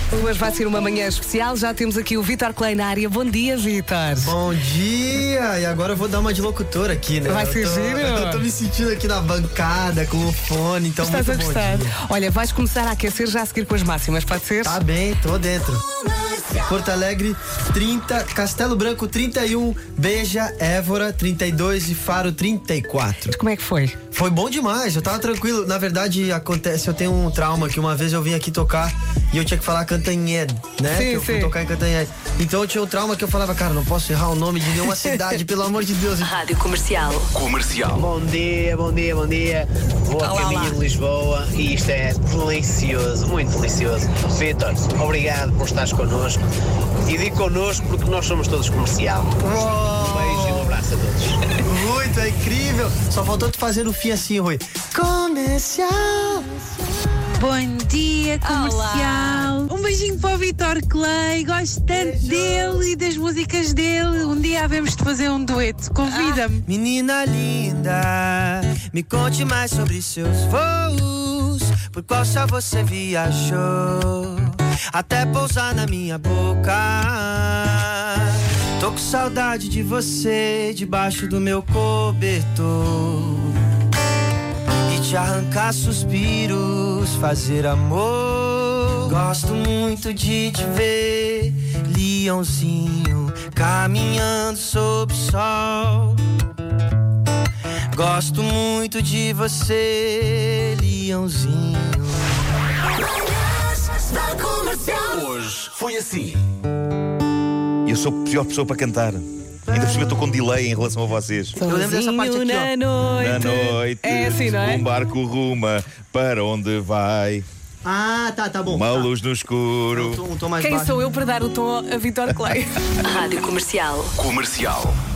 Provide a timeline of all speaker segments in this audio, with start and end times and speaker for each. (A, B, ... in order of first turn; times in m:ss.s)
0:00.1-0:04.4 A
0:04.2-0:12.0 B
0:07.3-0:08.4 A
0:11.0-0:14.8 A
0:14.6-0:15.8 B
0:16.6-0:23.4 B
0:23.3-0:24.0 A
0:24.1-0:36.3 B
0:30.9-0:31.5 A
0:36.2-0:37.3 C
0:37.3-0:38.0 D
0:37.9-0:46.4 E
0:40.2-0:40.8 A
0:47.0-0:51.5 E
0:49.4-0:50.8 B
0:51.6-0:56.5 B
0:57.4-1:06.6 F
0:58.4-0:59.6 A
1:01.9-1:02.9 B
1:06.6-1:23.6 B
1:24.9-1:36.2 B
1:37.9-1:42.3 B
1:44.9-1:46.4 D
1:47.8-1:51.6 G
1:49.7-1:50.2 B
1:51.6-1:54.8 A
1:51.6-1:52.7 B
1:53.2-1:57.4 G
1:57.8-1:59.1 B
1:58.7-2:00.2 G
1:59.9-2:01.0 B
2:00.6-2:02.7 A
2:03.0-2:04.1 C
2:04.2-2:05.0 D